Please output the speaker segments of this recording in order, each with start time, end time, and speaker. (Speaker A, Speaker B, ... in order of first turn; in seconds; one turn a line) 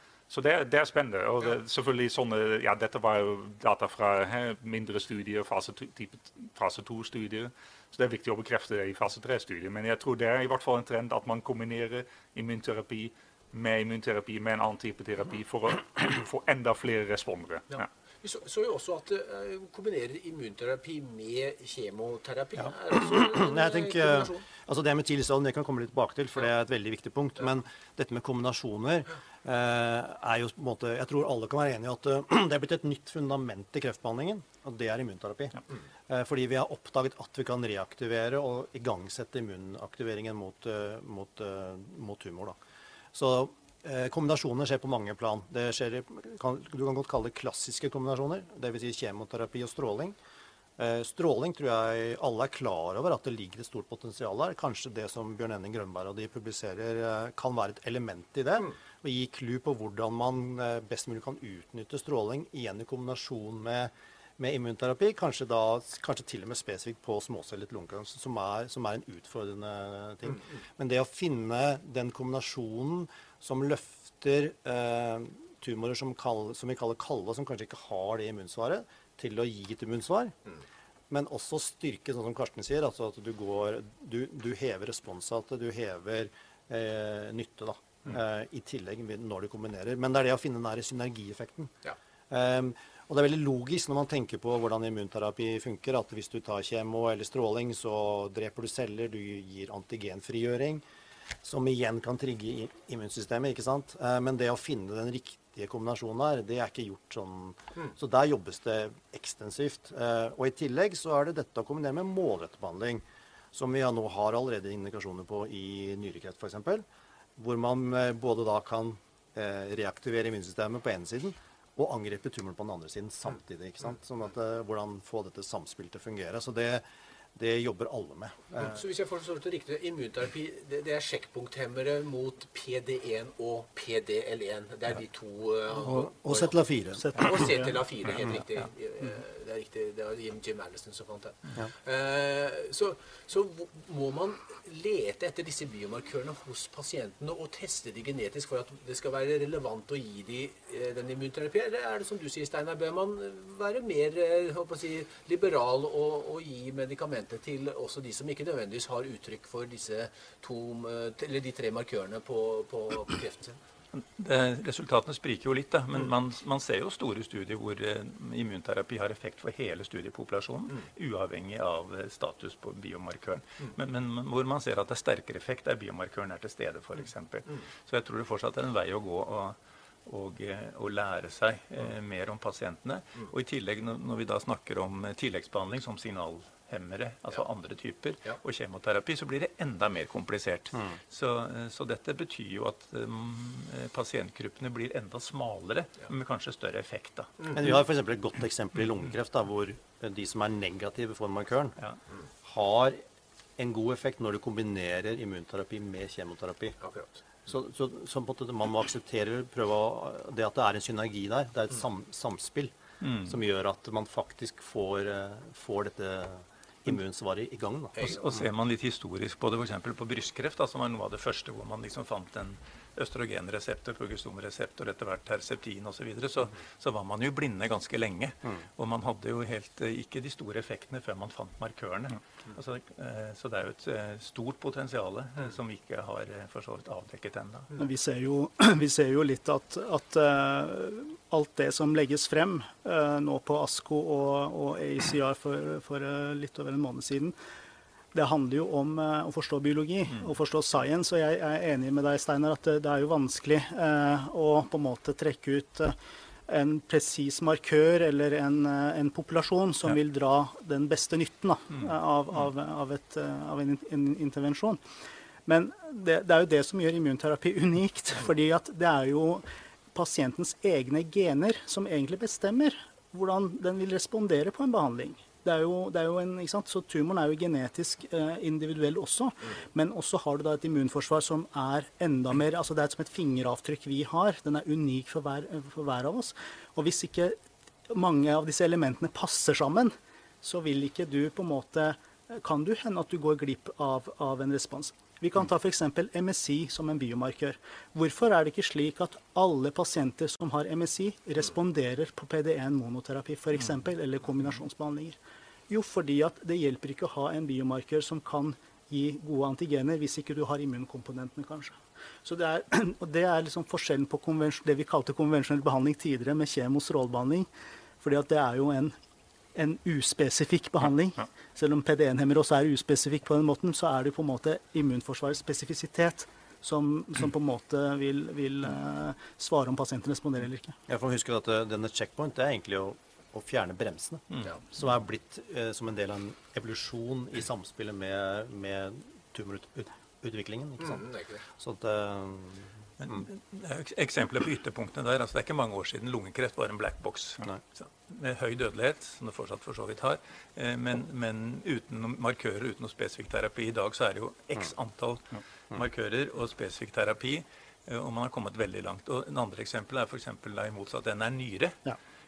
Speaker A: 0.3-17.9
Speaker B: 17.7-24.4
Speaker C: 22.6-42.6
Speaker C: 43.1-50.1
Speaker C: 50.8-80.3
Speaker C: 81.1-91.7
Speaker C: 92.3-100.8
Speaker C: 101.4-116.8
Speaker C: 117.4-126.8
Speaker C: 127.3-128.8
Speaker B: 128.6-136.5
Speaker C: 135.7-137.3
Speaker D: 136.9-137.8
Speaker B: 137.2-163.6
Speaker E: 163.9-197.3
Speaker C: 197.5-201.7
Speaker C: 202.4-203.0
Speaker C: 203.6-206.8
Speaker B: 206.8-207.2
Speaker C: 207.4-218.1
Speaker E: 213.0-213.4
Speaker B: 217.9-218.3
Speaker E: 218.0-237.7
Speaker D: 237.8-247.3
Speaker D: 248.1-255.9
Speaker D: 256.5-264.8
Speaker D: 265.4-287.4
Speaker D: 287.9-317.5
Speaker D: 318.0-318.9
Speaker D: 319.5-330.8
Speaker C: 330.9-343.2
Speaker B: 340.8-341.4
Speaker E: 343.0-361.8